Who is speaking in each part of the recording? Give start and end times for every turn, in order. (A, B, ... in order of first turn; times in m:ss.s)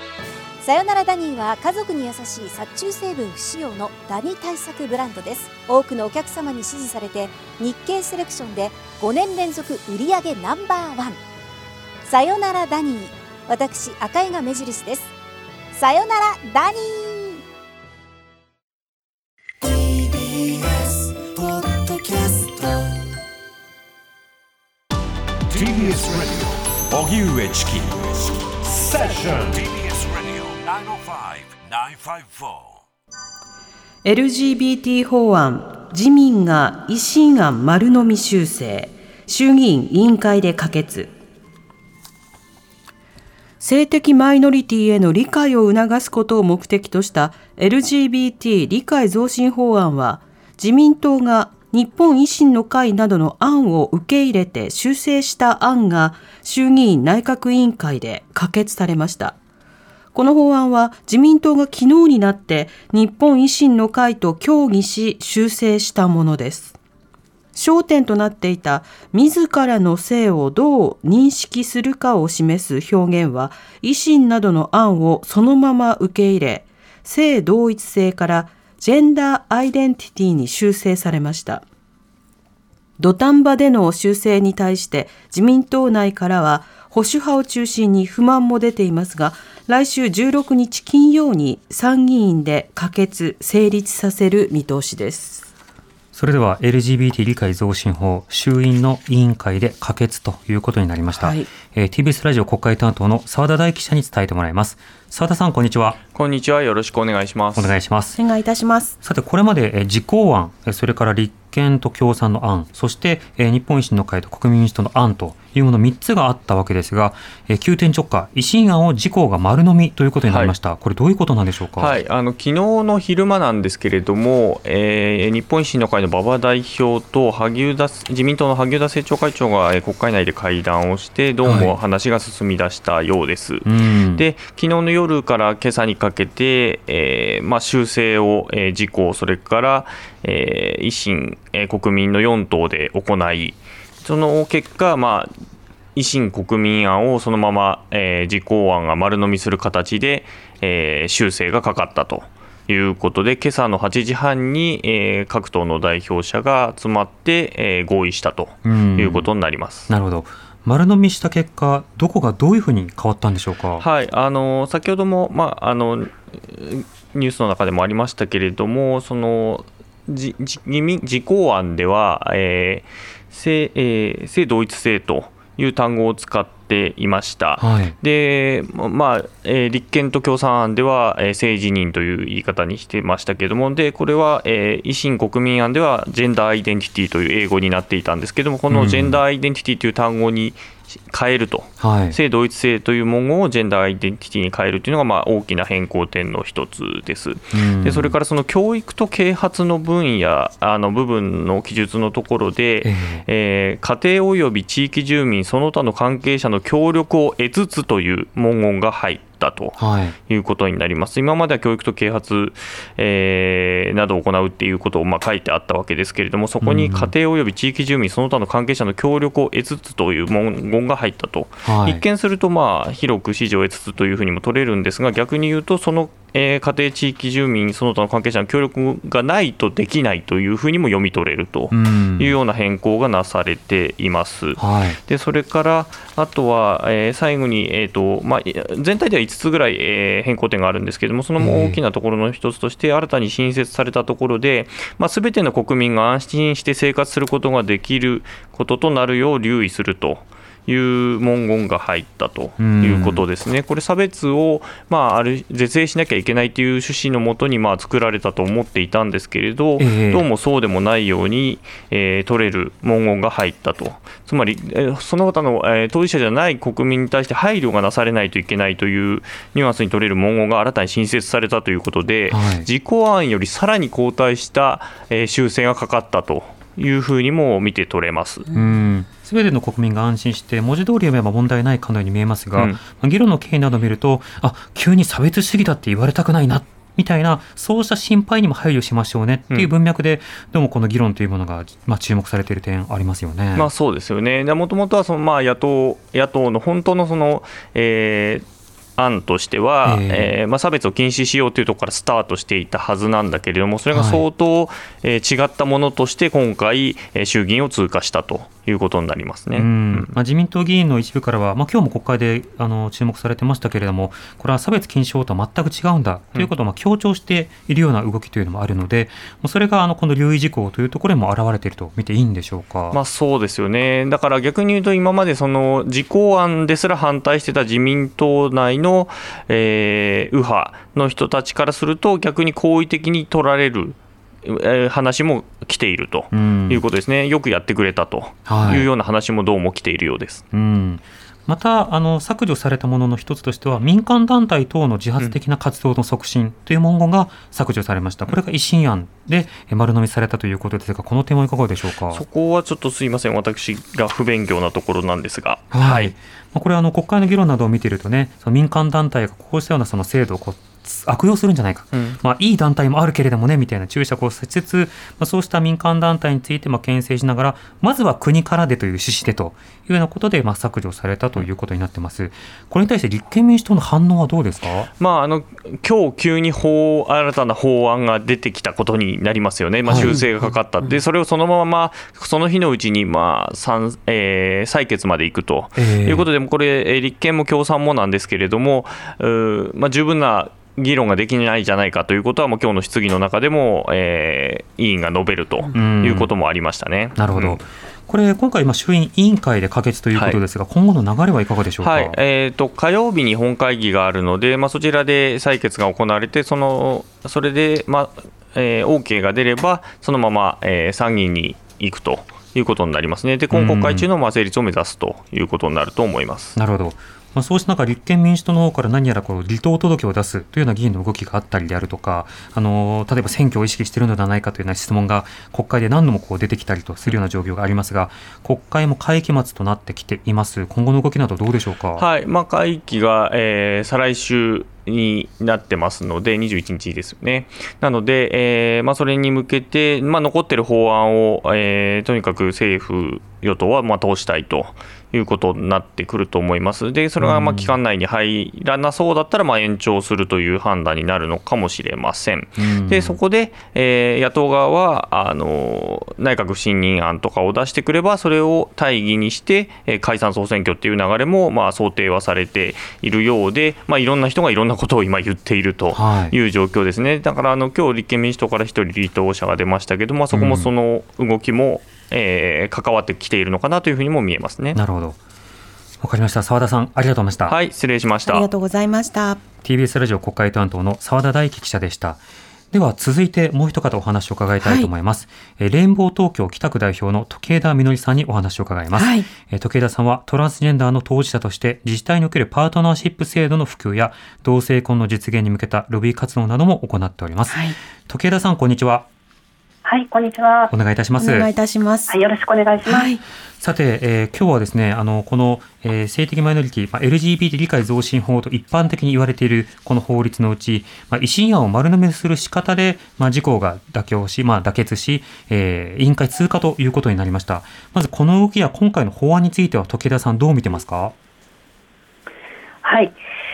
0:00.6-0:11.2 A
0:12.1-0:15.1 A
0:15.7-0:17.4 A
0:20.6-0:20.8 A
0:21.8-0:22.2 A
0:25.5-0:28.1 B
0:28.9-0:32.6 B
0:34.0-0:41.1 C
0:43.6-0:59.4 C
1:00.2-1:06.8 C
1:07.6-1:21.6 C
1:23.0-1:35.5 C
1:36.1-1:46.0 D
1:41.2-1:41.5 C
1:46.1-1:47.8 E
1:47.6-1:48.2 D
1:48.2-1:49.0 C
1:49.0-2:02.0 D
2:00.3-2:00.6 E
2:01.8-2:25.3 E
2:11.4-2:11.8 D
2:13.6-2:14.2 D
2:26.0-2:39.9 E
2:38.6-2:39.3 D
2:39.9-2:43.8 D
2:43.8-4:38.4 E
2:57.6-2:58.0 D
3:08.7-3:09.2 D
3:11.8-3:12.2 D
3:17.5-3:18.2 D
3:22.8-3:23.2 D
3:29.8-3:30.2 D
3:36.6-3:37.1 D
3:41.6-3:42.0 D
3:51.7-3:52.4 D
3:54.6-3:55.0 D
4:01.4-4:01.8 D
4:12.6-4:13.3 D
4:19.8-4:20.3 D
4:32.3-4:32.7 D
4:38.5-4:53.7 D
4:53.6-4:58.4 E
4:59.0-5:10.1 E
4:59.8-5:00.3 D
5:03.9-5:04.2 D
5:09.5-5:23.0 D
5:22.9-5:40.4 E
5:36.3-5:36.8 D
5:38.5-5:38.9 D
5:40.5-5:52.2 D
5:52.1-5:56.1 E
5:55.7-6:14.9 D
6:01.9-6:02.2 E
6:15.0-6:37.6 E
6:19.9-6:20.2 D
6:25.8-6:26.3 D
6:35.7-6:36.3 D
6:37.2-6:42.2 D
6:40.2-6:40.4 E
6:41.8-6:56.6 E
6:53.5-6:54.1 D
6:56.6-7:12.0 D
7:12.0-7:54.8 E
7:27.2-7:27.8 D
7:32.6-7:33.2 D
7:45.9-7:46.4 D
7:50.3-7:50.7 D
7:54.8-7:55.2 D
7:56.0-7:57.6 D
7:57.5-7:58.5 E
7:58.3-7:59.4 C
7:59.6-8:02.2 D
8:02.7-8:19.1 D
8:04.6-8:04.9 C
8:08.9-8:09.3 C
8:17.5-8:17.8 C
8:19.8-8:20.7 F
8:20.7-8:21.5 D
8:21.2-8:22.2 C
8:22.1-8:23.1 F
8:22.8-8:23.2 C
8:23.6-8:41.1 D
8:42.8-8:43.2 F